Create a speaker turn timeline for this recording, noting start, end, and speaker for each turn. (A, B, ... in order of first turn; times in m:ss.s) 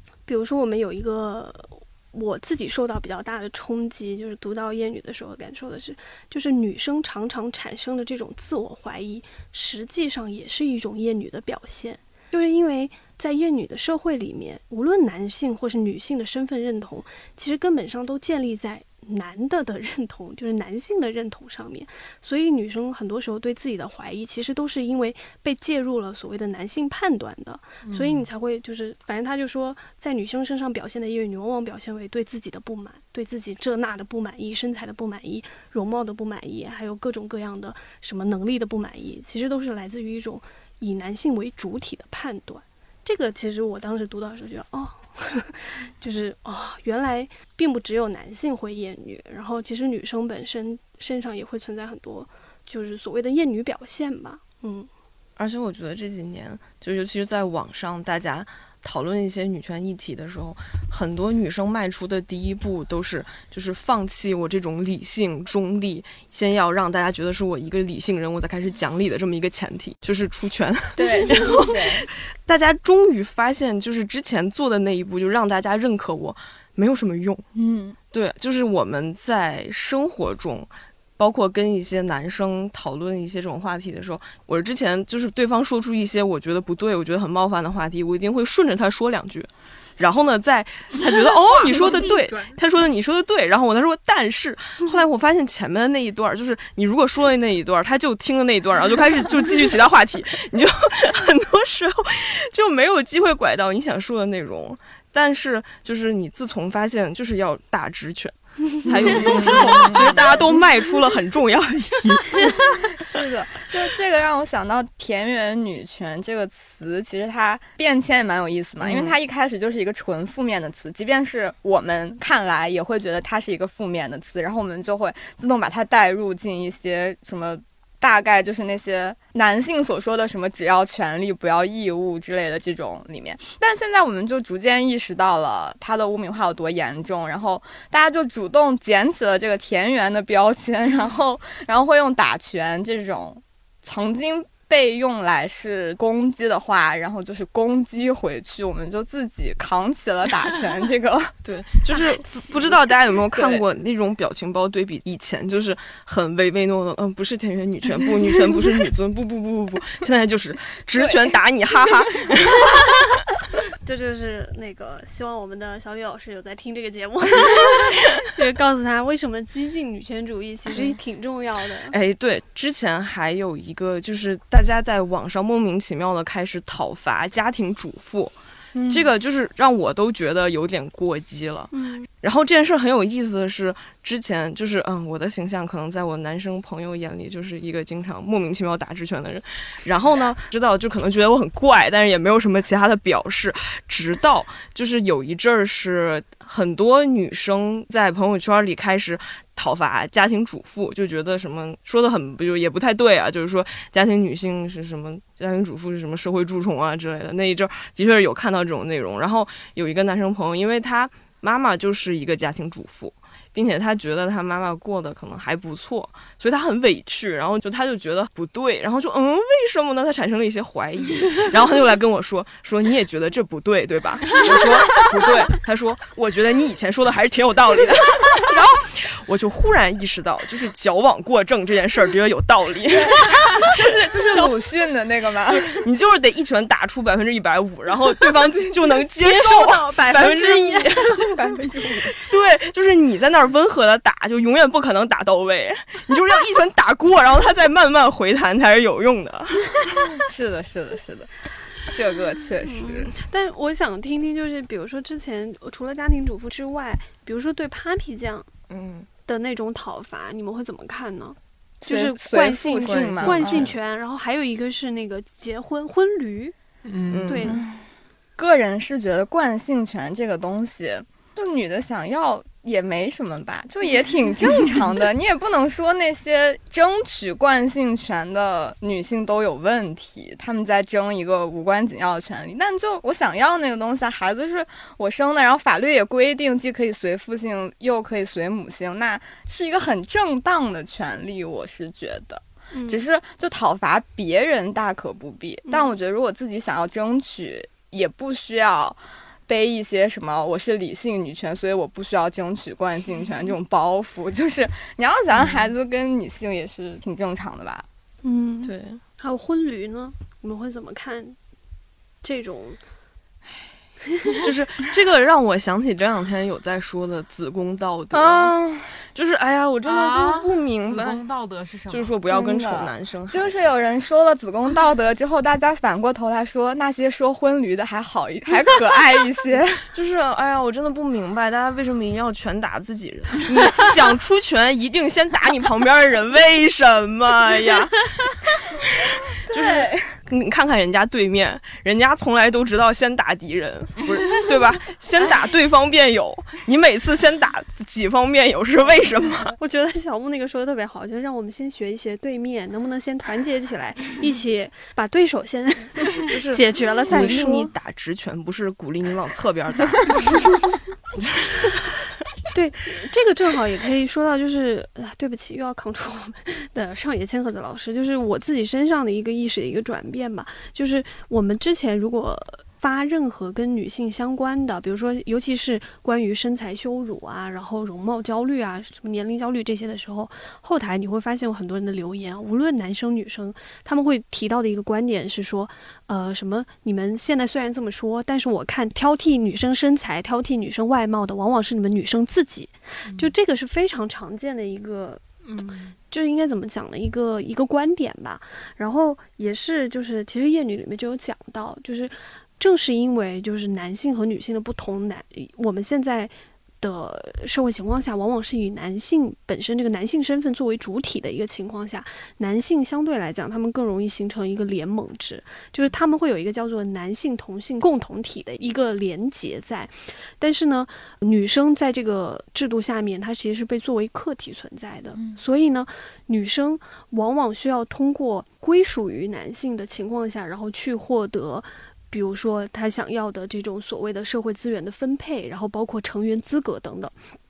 0:00.3-0:54.9 A
0:27.8-0:28.2 B
0:55.4-1:17.4 C
1:11.0-1:12.0 D
1:17.5-1:18.0 D
1:18.1-1:52.9 C
1:31.5-1:32.4 B
1:48.9-1:50.6 D
1:52.5-2:31.3 D
1:58.8-1:59.2 C
2:31.4-2:42.8 C
2:33.3-2:33.6 D
2:43.8-2:51.9 A
2:51.9-2:58.3 C
2:58.7-2:59.1 D
2:58.9-3:53.8 C
3:01.7-3:02.1 A
3:52.9-3:55.8 D
3:55.5-4:01.3 C
3:59.2-4:01.1 A
4:01.1-4:02.1 D
4:02.1-4:10.1 C
4:10.0-4:11.3 D
4:11.8-4:13.1 D
4:12.6-4:18.5 A
4:18.7-4:19.1 C
4:19.3-4:26.5 A
4:21.8-4:23.7 D
4:23.2-4:23.7 C
4:26.8-4:27.5 B
4:27.1-4:27.5 C
4:27.2-4:27.6 A
4:27.5-4:27.8 D
4:28.4-5:07.8 D
4:52.7-4:53.0 A
5:08.2-5:11.4 A
5:08.6-5:09.0 C
5:12.2-5:12.8 A
5:14.4-5:18.5 C
5:18.1-5:19.0 D
5:19.1-5:21.2 C
5:19.8-5:22.1 B
5:21.9-5:23.6 C
5:22.2-5:29.8 D
5:29.8-5:49.5 C
5:39.4-5:40.1 D
5:49.6-5:57.7 A
5:56.2-6:00.6 C
6:01.2-6:01.5 C
6:02.5-6:35.2 A
6:33.0-6:33.3 B
6:35.4-6:35.9 B
6:36.1-7:17.1 A